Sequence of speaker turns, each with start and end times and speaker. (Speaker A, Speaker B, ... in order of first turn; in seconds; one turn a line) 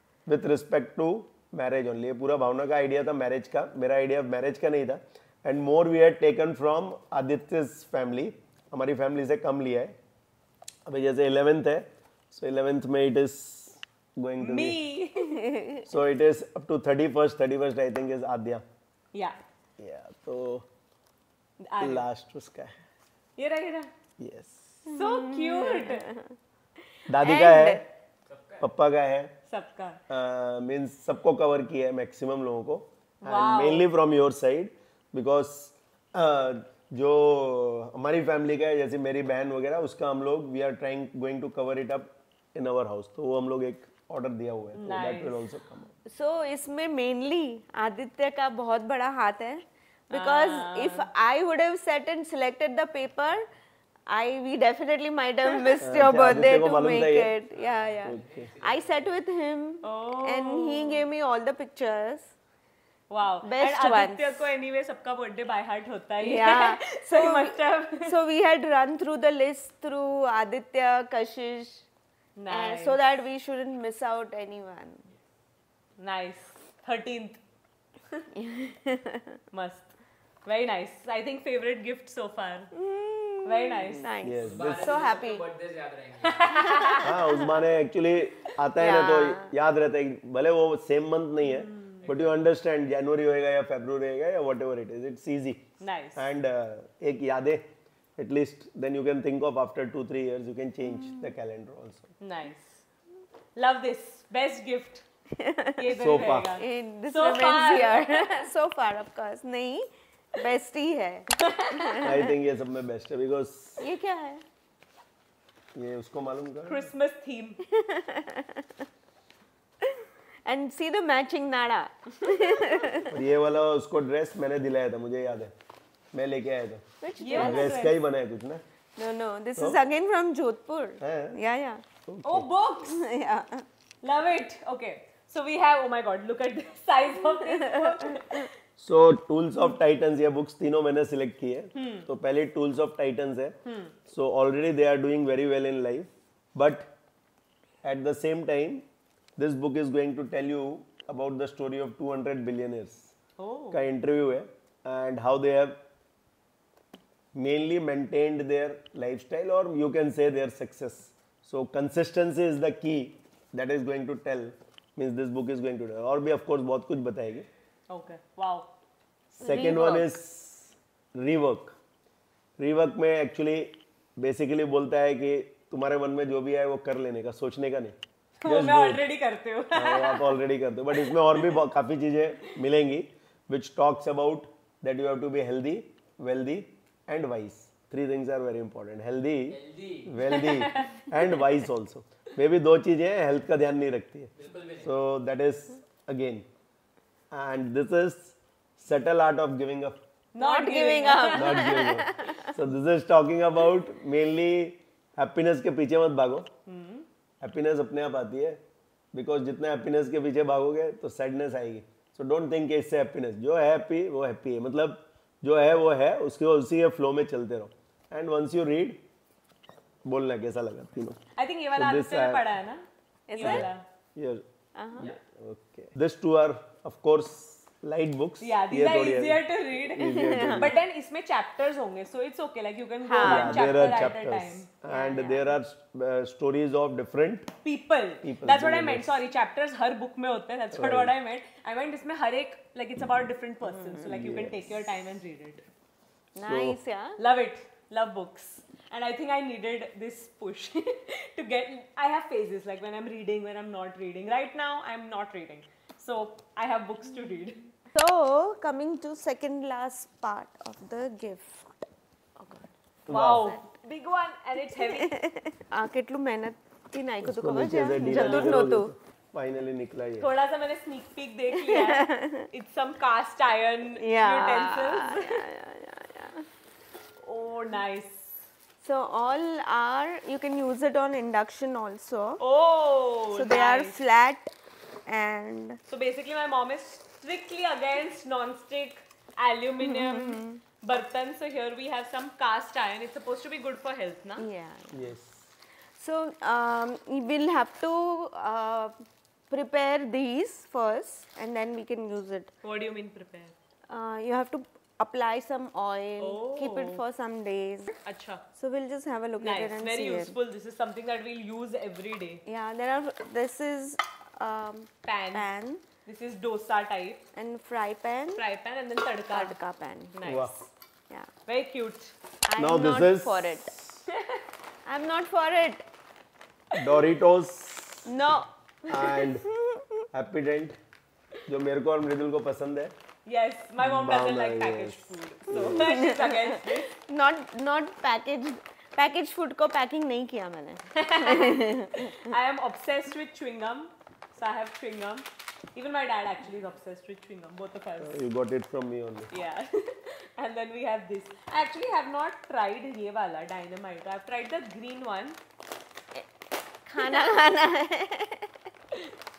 Speaker A: 0.3-9.9
Speaker A: 10.8-14.8
Speaker B: 14.4-15.5
Speaker C: 15.3-15.9
Speaker A: 15.8-18.6
Speaker B: 19.1-19.4
Speaker A: 19.8-20.6
Speaker B: 21.6-22.1
Speaker A: 21.8-22.8
Speaker B: 23.4-23.9
Speaker A: 24.2-24.8
Speaker B: 24.8-26.1
Speaker C: 24.9-26.3
Speaker A: 27.1-27.9
Speaker C: 27.2-27.8
Speaker D: 28.3-28.7
Speaker A: 28.6-29.3
Speaker B: 29.5-30.0
Speaker A: 30.1-45.9
Speaker B: 33.2-33.9
Speaker B: 44.7-45.4
Speaker C: 46.1-53.4
Speaker B: 50.1-51.1
Speaker C: 54.1-62.3
Speaker A: 55.8-57.3
Speaker D: 57.7-58.8
Speaker A: 58.0-58.5
Speaker B: 59.8-61.0
Speaker B: 63.1-68.1
Speaker C: 63.4-64.5
Speaker C: 66.2-71.9
Speaker B: 72.3-73.0
Speaker C: 72.5-75.0
Speaker B: 76.0-77.4
Speaker C: 78.3-79.4
Speaker B: 79.5-79.9
Speaker B: 80.4-82.7
Speaker C: 82.8-85.5
Speaker B: 83.4-84.1
Speaker A: 84.2-85.0
Speaker D: 84.4-86.5
Speaker B: 86.2-87.3
Speaker C: 86.5-87.5
Speaker A: 87.0-95.6
Speaker C: 88.8-89.5
Speaker B: 91.6-92.0
Speaker B: 95.8-96.3
Speaker A: 96.2-97.6
Speaker A: 98.2-102.1
Speaker C: 100.9-101.3
Speaker B: 102.2-102.8
Speaker B: 103.5-105.0
Speaker C: 105.3-112.3
Speaker B: 105.8-108.5
Speaker A: 105.9-106.5
Speaker B: 111.5-112.1
Speaker A: 112.0-113.8
Speaker C: 113.8-114.4
Speaker A: 115.8-116.9
Speaker B: 116.7-117.6
Speaker C: 117.7-118.8
Speaker C: 119.8-123.2
Speaker A: 123.1-125.5
Speaker A: 126.1-128.6
Speaker C: 127.0-127.9
Speaker B: 127.2-128.0
Speaker C: 129.0-131.8
Speaker A: 131.0-131.4
Speaker A: 132.1-132.5
Speaker B: 132.2-133.0
Speaker C: 132.8-133.7
Speaker B: 134.0-138.5
Speaker C: 137.3-138.4
Speaker A: 138.8-143.5
Speaker B: 141.7-142.1
Speaker B: 143.6-143.9
Speaker A: 144.1-146.9
Speaker A: 147.8-148.8
Speaker A: 149.4-153.1
Speaker B: 153.4-153.8
Speaker A: 153.7-155.8
Speaker A: 157.3-167.5
Speaker B: 167.9-168.7
Speaker A: 169.3-171.7
Speaker C: 169.4-170.1
Speaker A: 172.6-179.0
Speaker B: 178.4-180.3
Speaker A: 179.7-196.4
Speaker B: 180.9-181.6
Speaker D: 189.5-190.1
Speaker B: 190.2-191.2
Speaker D: 194.5-194.8
Speaker A: 197.3-200.0
Speaker B: 200.3-202.0
Speaker C: 200.4-202.5
Speaker A: 201.3-206.5
Speaker B: 206.7-207.0
Speaker A: 207.4-208.6
Speaker A: 209.1-219.0
Speaker A: 220.0-221.2
Speaker B: 221.3-223.8
Speaker A: 221.7-222.5
Speaker C: 223.3-223.7
Speaker A: 223.5-224.4
Speaker C: 224.7-225.2
Speaker A: 225.0-230.8
Speaker B: 228.4-234.7
Speaker C: 230.0-230.8
Speaker C: 233.0-233.8
Speaker A: 233.2-237.5
Speaker C: 234.9-235.6
Speaker B: 237.6-245.6
Speaker A: 238.2-239.2
Speaker A: 240.7-241.1
Speaker C: 243.6-244.1
Speaker A: 244.0-244.7
Speaker C: 246.3-247.2
Speaker A: 246.5-246.8
Speaker B: 247.2-257.6
Speaker C: 257.9-261.7
Speaker C: 262.4-262.7
Speaker A: 263.1-263.6
Speaker B: 263.1-265.1
Speaker C: 264.7-268.9
Speaker A: 267.2-270.3
Speaker B: 268.0-268.6
Speaker B: 270.2-275.4
Speaker C: 271.6-272.5
Speaker C: 274.0-276.5
Speaker B: 277.2-278.4
Speaker C: 278.8-282.4
Speaker B: 282.4-284.0
Speaker C: 283.3-284.5
Speaker C: 285.1-285.8
Speaker B: 285.9-294.4
Speaker C: 289.8-290.6
Speaker C: 294.4-295.0
Speaker A: 294.9-295.5
Speaker C: 296.0-298.9
Speaker C: 299.5-302.5
Speaker B: 302.6-303.5
Speaker C: 303.9-307.9
Speaker B: 306.2-307.0
Speaker B: 308.0-308.4
Speaker C: 308.5-310.4
Speaker B: 309.4-312.4
Speaker C: 312.4-315.8
Speaker B: 315.0-315.5
Speaker B: 316.0-317.2
Speaker C: 317.3-318.4
Speaker B: 318.4-319.6
Speaker C: 319.3-320.2
Speaker B: 320.1-320.7
Speaker A: 320.2-320.6
Speaker B: 321.5-322.1
Speaker C: 322.5-323.7
Speaker A: 322.6-324.0
Speaker B: 324.1-324.4
Speaker C: 324.9-325.8
Speaker A: 326.8-328.1
Speaker C: 328.1-330.0
Speaker A: 328.9-329.4
Speaker A: 330.1-330.8
Speaker A: 331.4-332.9
Speaker B: 333.2-336.9
Speaker A: 333.8-335.9
Speaker C: 335.6-342.3
Speaker B: 340.9-348.2
Speaker A: 348.0-349.3
Speaker B: 349.3-355.4
Speaker C: 356.9-358.6